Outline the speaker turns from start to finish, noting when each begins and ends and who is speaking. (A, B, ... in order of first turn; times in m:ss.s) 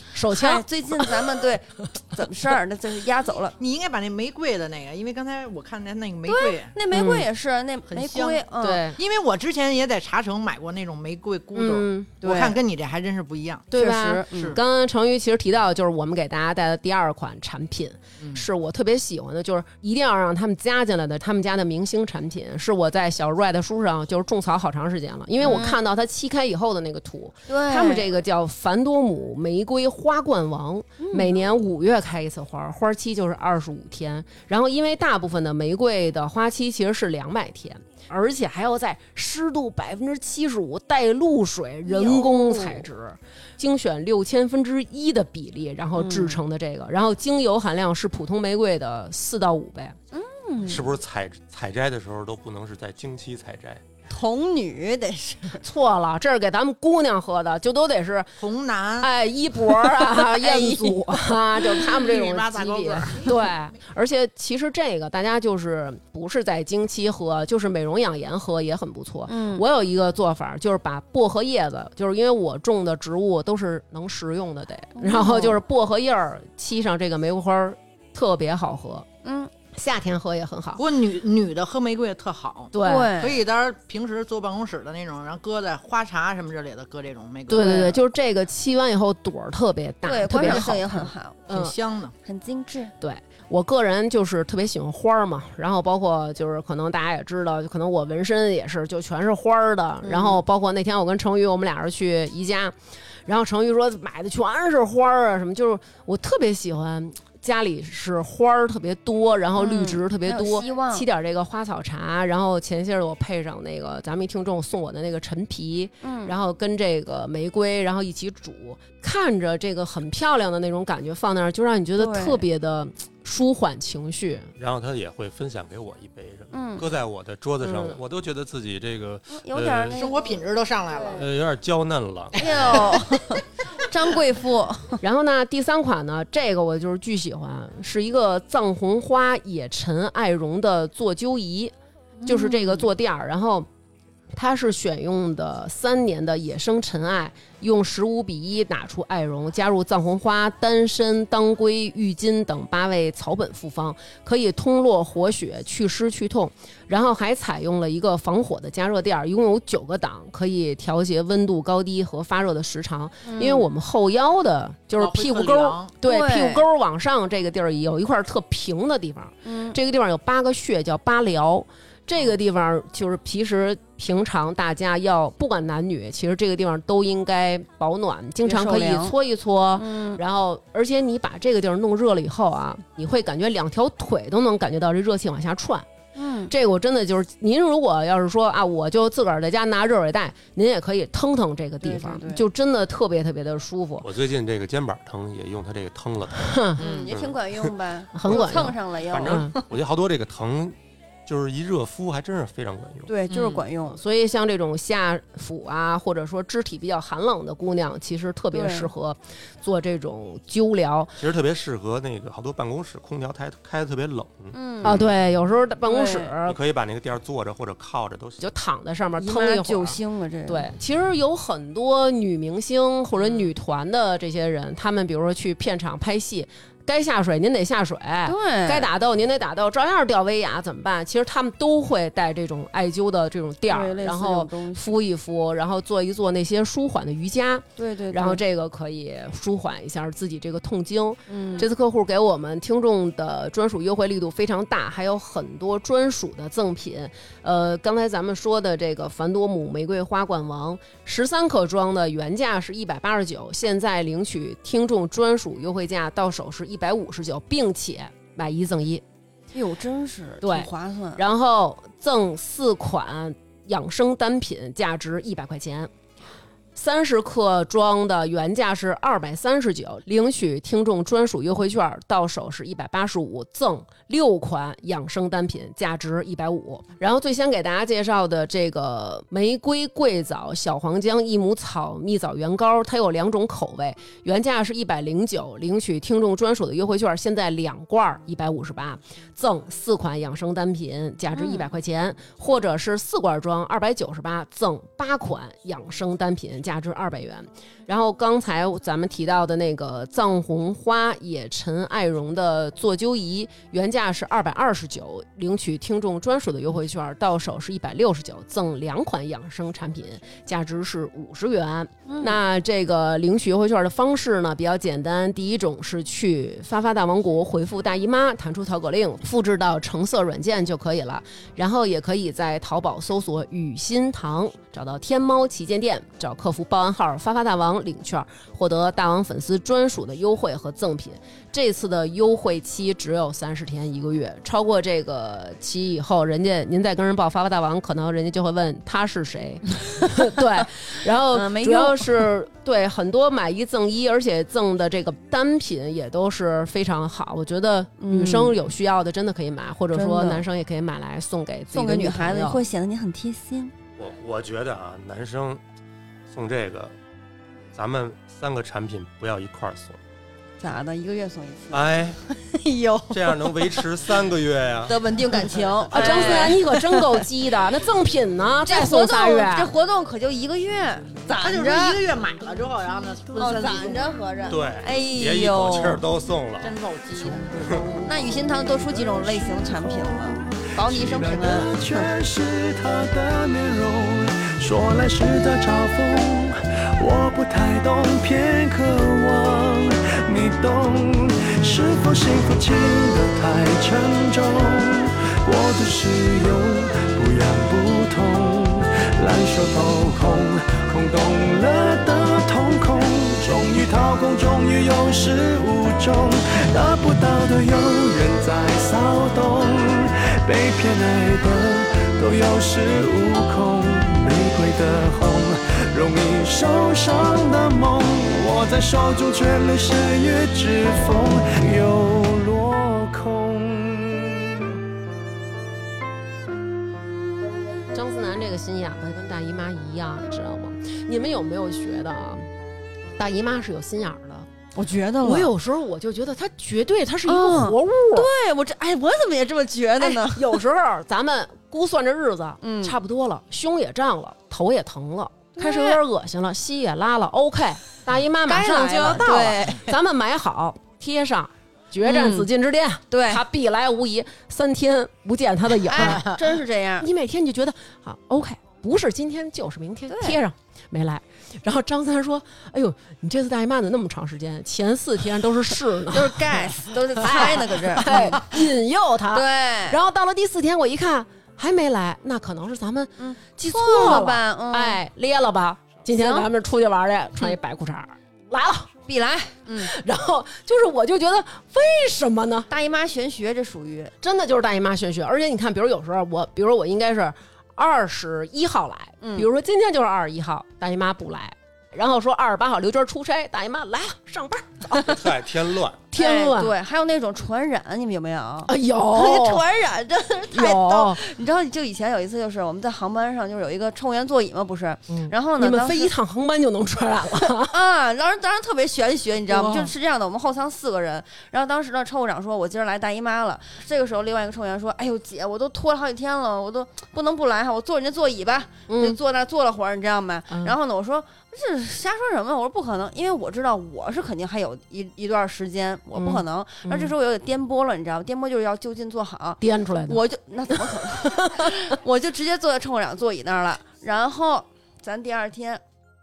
0:00.1-0:01.3 A
0:00.3-0:03.5 B
0:03.6-0:06.7 C
0:06.2-0:08.8 B
0:06.9-0:07.3 A
0:07.9-0:08.4 C
0:08.6-0:09.0 A
0:09.0-0:13.7 C
0:11.5-0:12.2 A
0:12.2-0:12.6 B
0:13.7-0:50.0 A
0:13.7-0:14.6 B
0:14.3-0:14.6 C
0:18.2-0:18.4 C
0:25.4-0:25.8 B
0:27.5-0:28.1 B
0:31.0-0:31.3 B
0:41.8-0:42.8 B
0:46.0-0:46.4 B
0:50.1-0:50.9 B
0:50.6-0:53.8 D
0:54.1-0:55.6 B
0:55.6-0:58.3 A
0:58.4-0:59.1 C
0:59.0-1:19.0 A
0:59.8-1:01.9 B
1:02.0-1:03.6 C
1:09.3-1:09.6 B
1:14.9-1:15.6 B
1:19.2-1:19.5 B
1:19.7-1:20.8 A
1:20.8-1:27.9 C
1:22.7-1:23.1 A
1:22.8-1:23.4 B
1:27.5-1:31.8 A
1:27.6-1:27.9 B
1:30.0-1:31.4 B
1:30.4-1:30.7 C
1:31.5-1:32.1 C
1:32.2-1:32.9 B
1:33.0-1:42.7 A
1:40.0-1:40.4 B
1:43.2-2:04.5 A
1:49.6-1:51.0 B
1:56.0-1:56.3 B
2:02.0-2:02.4 B
2:04.6-2:10.0 D
2:06.5-2:06.8 B
2:07.6-2:08.0 A
2:09.3-2:11.2 B
2:09.9-2:11.3 C
2:11.1-2:13.0 D
2:12.4-2:15.0 B
2:12.4-2:13.0 C
2:15.0-2:21.7 A
2:22.2-2:22.9 B
2:22.2-2:23.7 A
2:24.3-3:05.8 A
2:43.2-2:43.7 B
2:45.0-2:45.9 C
2:46.0-2:46.6 B
2:49.4-2:49.8 B
2:58.4-2:59.1 B
2:59.8-3:00.2 B
3:06.2-3:06.5 B
3:06.5-3:14.1 A
3:11.8-3:12.4 B
3:14.0-3:17.7 D
3:16.4-3:16.8 A
3:16.8-3:17.1 C
3:16.8-3:19.6 B
3:18.1-3:19.5 A
3:18.3-3:23.1 D
3:23.1-3:24.0 B
3:23.3-3:23.6 C
3:23.9-3:31.1 A
3:28.5-3:28.9 B
3:31.2-3:35.1 D
3:34.5-3:35.0 B
3:34.8-3:36.6 A
3:35.8-3:36.3 B
3:36.4-3:38.4 D
3:38.4-4:19.0 A
3:39.2-3:40.7 B
3:48.2-3:48.9 B
3:53.7-3:54.9 B
3:57.8-3:58.4 B
4:01.3-4:01.7 B
4:19.5-4:21.2 B
4:20.4-4:25.9 A
4:26.7-5:52.6 A
4:51.3-4:51.6 B
5:12.1-5:12.4 B
5:41.3-5:42.2 B
5:48.0-5:48.6 B
5:49.9-5:50.4 B
5:51.7-5:53.7 B
5:54.0-5:55.6 D
5:56.3-5:56.9 D
5:57.7-6:00.0 D
6:00.6-6:03.8 B
6:01.7-6:02.2 D
6:03.1-6:05.0 D
6:04.9-6:07.2 B
6:05.9-6:09.7 A
6:08.6-6:12.0 B
6:11.3-6:14.2 C
6:13.4-6:16.0 B
6:14.5-6:16.8 D
6:16.6-6:18.7 C
6:18.0-6:22.1 B
6:19.1-7:04.8 E
7:07.9-7:12.5 A
7:13.2-7:14.5 A
7:14.7-7:15.5 B
7:15.2-7:18.3 A
7:17.2-7:20.6 B
7:20.0-7:36.4 A
7:22.6-7:23.0 B
7:25.5-7:26.0 B
7:28.4-7:29.9 B
7:32.0-7:32.5 B
7:33.1-7:33.4 B
7:35.9-7:37.1 B
7:37.0-7:46.6 A
7:40.1-7:40.4 B
7:46.1-7:48.5 B
7:47.2-7:58.9 A
7:49.3-7:50.0 B
7:53.2-7:55.0 B
7:56.1-7:56.5 B
7:59.1-7:59.9 B
7:59.8-8:02.7 A
8:02.7-8:04.1 B
8:04.2-8:15.2 A
8:09.2-8:09.5 B
8:15.0-8:16.0 D
8:16.1-8:16.7 A
8:16.2-8:26.1 B
8:18.7-8:19.6 A
8:20.5-8:21.2 A
8:25.1-8:27.7 A
8:27.6-8:55.8 B
8:29.5-8:29.9 A
8:38.9-8:39.2 A
8:40.5-8:40.7 A
8:46.1-8:47.1 A
8:49.6-8:51.8 A